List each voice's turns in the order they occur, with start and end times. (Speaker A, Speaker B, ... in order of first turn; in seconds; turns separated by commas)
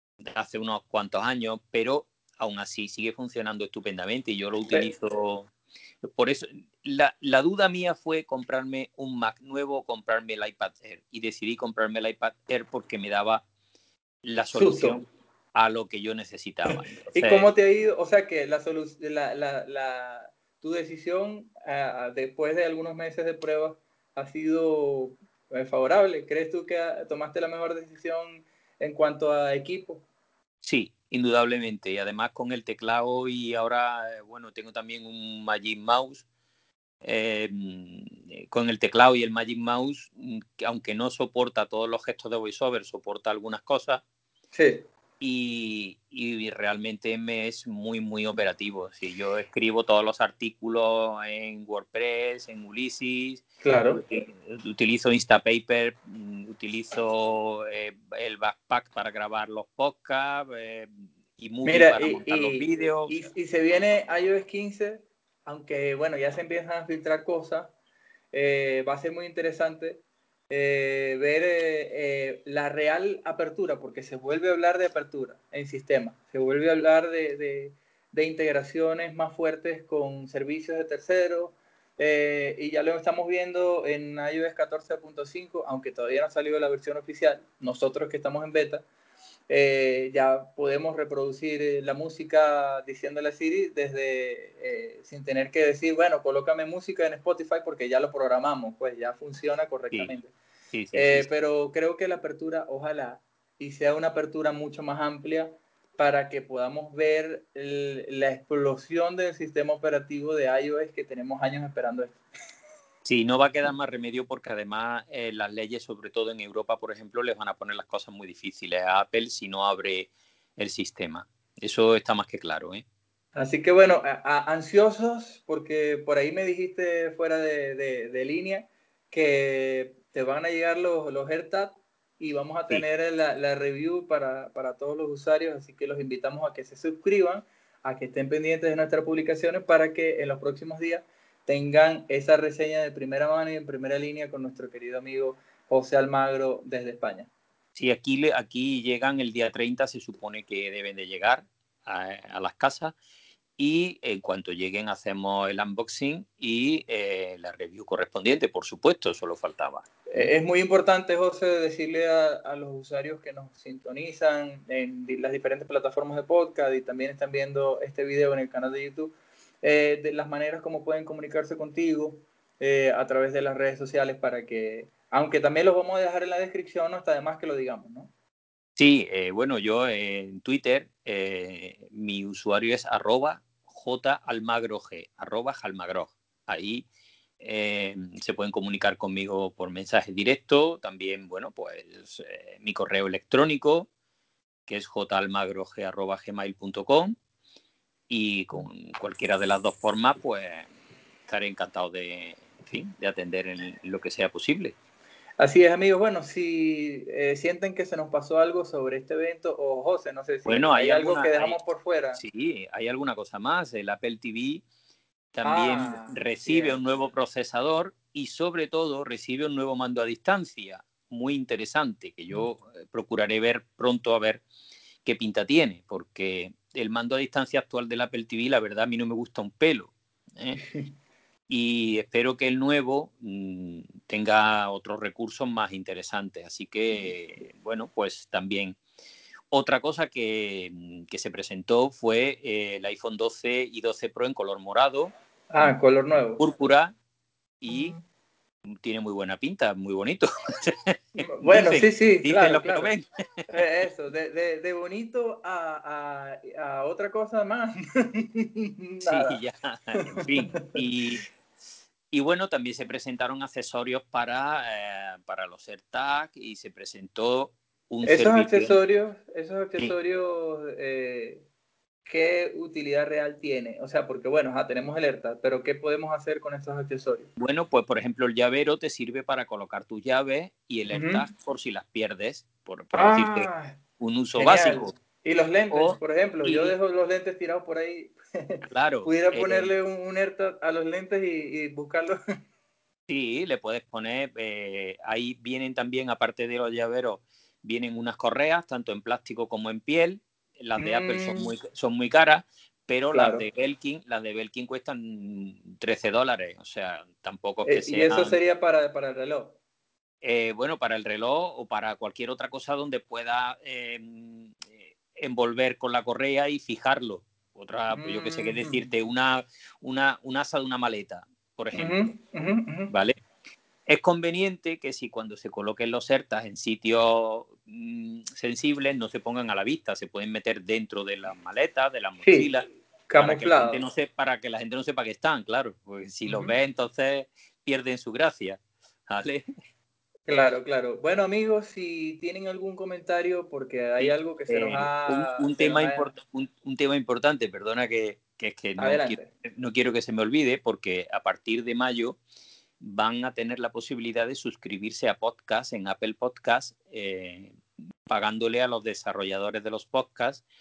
Speaker A: 0.2-5.5, Speaker A: 6.0-13.4, Speaker A: 14.2-17.5, Speaker B: 14.5-15.0, Speaker B: 16.7-30.0, Speaker A: 30.6-36.2, Speaker A: 37.0-44.0, Speaker B: 44.5-44.9, Speaker A: 45.2-63.2, Speaker B: 53.6-54.0, Speaker B: 61.6-67.7, Speaker B: 68.3-88.8, Speaker B: 89.5-100.3, Speaker A: 100.7-101.3, Speaker B: 100.9-112.2, Speaker A: 113.0-122.8, Speaker B: 123.3-147.3, Speaker A: 147.8-153.0, Speaker A: 153.6-160.3, Speaker B: 160.1-178.1, Speaker A: 178.8-186.9, Speaker A: 187.4-193.9, Speaker A: 194.7-197.2, Speaker A: 198.1-200.7, Speaker A: 201.3-204.8, Speaker B: 205.4-212.2, Speaker A: 210.5-211.6, Speaker A: 212.2-214.7, Speaker A: 215.3-224.4, Speaker B: 215.4-216.8, Speaker A: 225.0-230.6, Speaker B: 230.6-230.9, Speaker A: 231.5-238.8, Speaker A: 239.5-245.7, Speaker B: 245.5-246.4, Speaker A: 246.4-246.9, Speaker A: 247.6-248.0, Speaker B: 247.7-247.9, Speaker A: 248.7-253.1, Speaker B: 251.2-252.9, Speaker B: 253.5-259.4, Speaker A: 259.1-261.2, Speaker B: 260.0-260.8, Speaker A: 262.1-268.8, Speaker B: 268.0-271.5, Speaker B: 272.0-277.3, Speaker A: 277.4-284.9, Speaker B: 280.9-281.3, Speaker B: 282.9-283.8, Speaker B: 284.4-292.2, Speaker A: 285.7-286.8, Speaker A: 288.6-289.7, Speaker A: 293.1-308.4, Speaker B: 300.8-301.5, Speaker B: 303.1-303.5, Speaker B: 307.6-309.6, Speaker A: 310.2-322.1, Speaker B: 317.9-318.9, Speaker B: 321.7-322.9, Speaker A: 322.9-323.2, Speaker A: 323.9-339.5, Speaker B: 332.2-332.5, Speaker B: 333.1-333.8, Speaker B: 336.2-336.6, Speaker B: 340.3-346.1, Speaker A: 344.0-352.2, Speaker B: 348.8-349.3, Speaker A: 352.8-360.4